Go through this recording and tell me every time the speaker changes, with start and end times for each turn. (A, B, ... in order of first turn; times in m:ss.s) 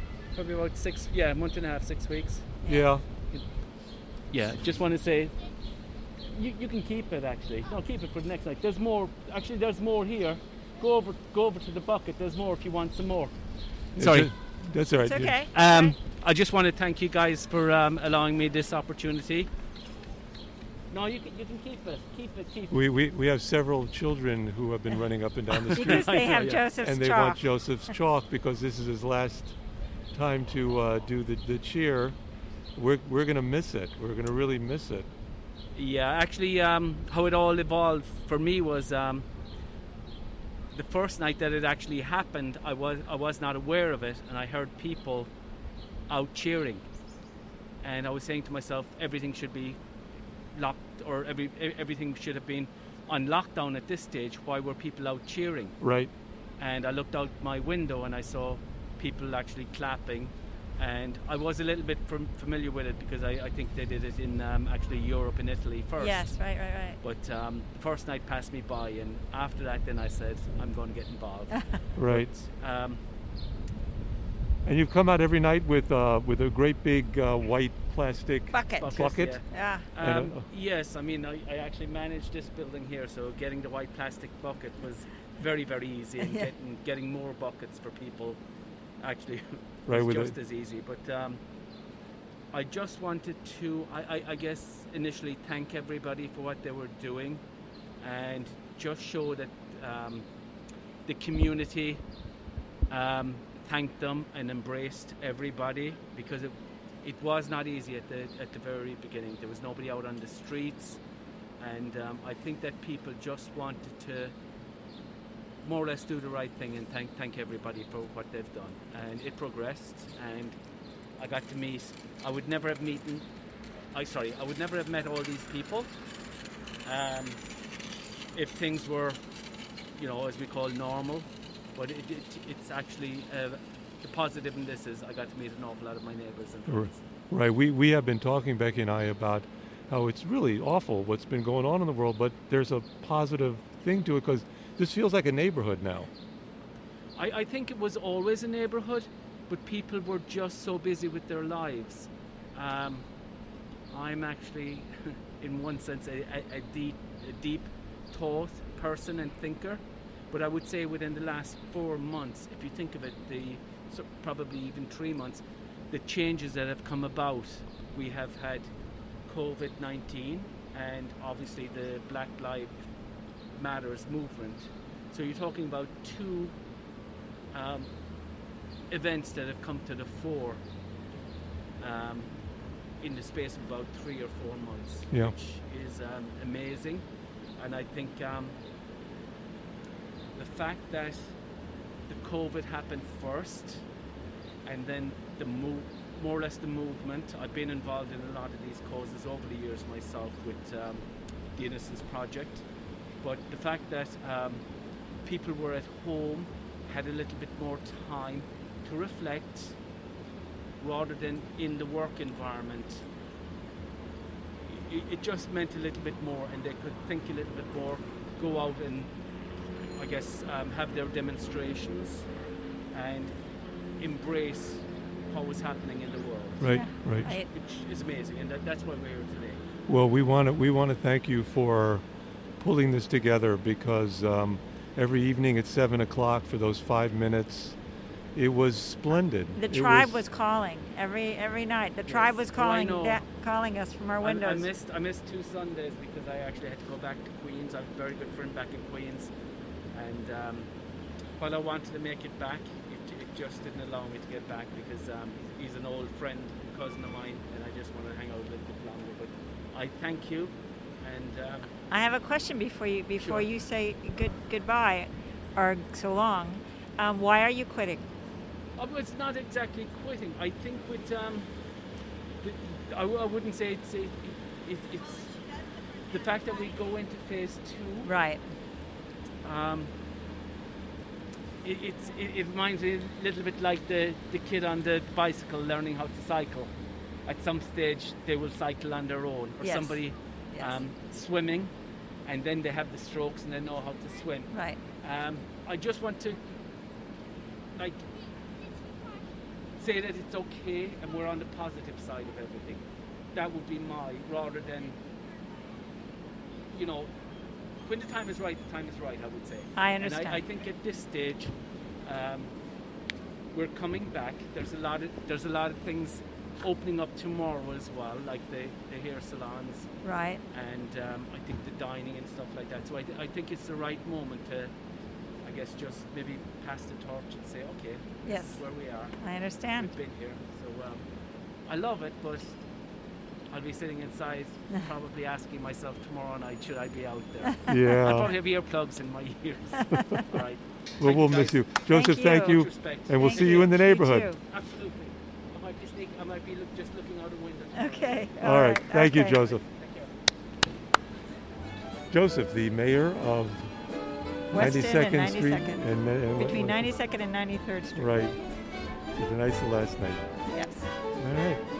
0:00.3-0:02.6 A
0:02.6-0:02.9 B
0:02.6-0:03.0 C
0:04.3-0:05.3 A
0:06.3-0:13.3 A
0:13.9-0:14.3 A
0:14.0-0:15.4 C
0:15.0-0:15.9 B
0:15.5-0:19.5 A
0:20.9-0:22.8 A
0:22.7-0:29.6 C
0:25.6-0:26.6 A
0:25.7-0:27.5 B
0:30.1-0:32.2 C
0:32.7-0:35.1 C
0:35.7-0:39.2 A
0:40.7-0:45.3 A
0:46.1-0:46.8 A
0:47.8-0:49.8 A
0:50.5-0:55.8 A
0:55.8-0:56.1 C
0:56.6-1:06.3 A
1:06.0-1:07.0 B
1:07.0-1:13.0 A
1:12.0-1:12.3 C
1:14.6-1:19.4 C
1:18.5-1:19.0 B
1:18.8-1:28.4 A
1:19.5-1:19.8 B
1:20.0-1:20.4 C
1:26.2-1:26.5 B
1:29.0-1:31.4 A
1:29.9-1:30.3 C
1:32.5-1:37.4 A
1:38.0-1:40.2 A
1:41.0-1:42.0 A
1:42.9-1:51.0 A
1:51.6-1:54.3 A
1:55.6-2:00.6 A
2:01.2-2:03.2 A
2:03.9-2:05.9 A
2:06.8-2:07.4 A
2:08.3-2:09.2 A
2:10.0-2:17.0 A
2:16.7-2:26.1 C
2:27.2-2:33.0 A
2:33.9-2:39.8 A
2:40.3-2:48.7 A
2:49.3-2:52.7 A
2:53.6-2:56.5 A
2:57.5-2:57.9 A
2:58.9-3:00.6 A
3:01.8-3:02.3 A
3:03.0-3:07.0 A
3:07.6-3:08.6 A
3:10.4-3:11.3 A
3:12.1-3:13.8 A
3:14.6-3:21.0 A
3:21.6-3:22.6 A
3:23.2-3:24.6 A
3:25.2-3:29.7 A
3:30.8-3:33.0 A
3:34.7-3:39.1 A
3:40.0-3:42.2 A
3:42.9-3:43.3 A
3:44.0-3:46.7 A
3:46.6-3:47.3 C
3:46.6-3:47.5 B
3:47.5-3:49.6 A
3:49.9-3:52.0 C
3:52.6-3:57.8 C
3:58.3-4:00.2 C
3:59.6-4:04.7 B
4:02.1-4:03.2 A
4:04.2-4:09.3 A
4:09.9-4:10.7 A
4:11.4-4:21.7 A
4:21.9-4:28.0 B
4:23.2-4:23.5 A
4:28.8-4:31.5 A
4:32.4-4:35.5 A
4:36.1-4:38.1 A
4:38.0-4:38.4 B
4:39.4-4:39.9 A
4:41.6-4:46.7 A
4:47.2-4:51.7 A
4:49.6-4:50.0 B
4:52.2-4:56.4 A
4:54.5-4:54.8 B
4:57.8-4:58.0 A
4:59.8-5:02.8 A
5:03.3-5:05.0 A
5:06.7-5:07.1 A
5:07.8-5:11.5 A
5:09.8-5:10.4 B
5:12.0-5:12.5 A
5:13.5-5:19.9 A
5:20.0-5:20.4 B
5:20.5-5:24.7 A
5:25.4-5:29.2 A
5:28.2-5:28.6 B
5:29.2-5:29.9 B
5:29.8-5:31.0 A
5:31.7-5:32.6 A
5:33.5-5:41.7 A
5:37.7-5:38.3 C
5:39.8-5:40.2 B
5:39.9-5:40.2 C
5:41.0-5:44.3 C
5:41.9-5:42.6 B
5:42.4-5:43.7 A
5:43.2-5:44.4 B
5:44.5-5:48.3 A
5:47.7-5:49.4 B
5:48.4-5:49.6 C
5:49.4-5:50.1 A
5:52.1-5:53.7 C
5:54.5-5:58.1 B
5:54.5-5:56.9 C
5:58.0-5:58.4 C
5:59.1-6:00.2 C
6:00.5-6:00.9 B
6:01.2-6:01.6 C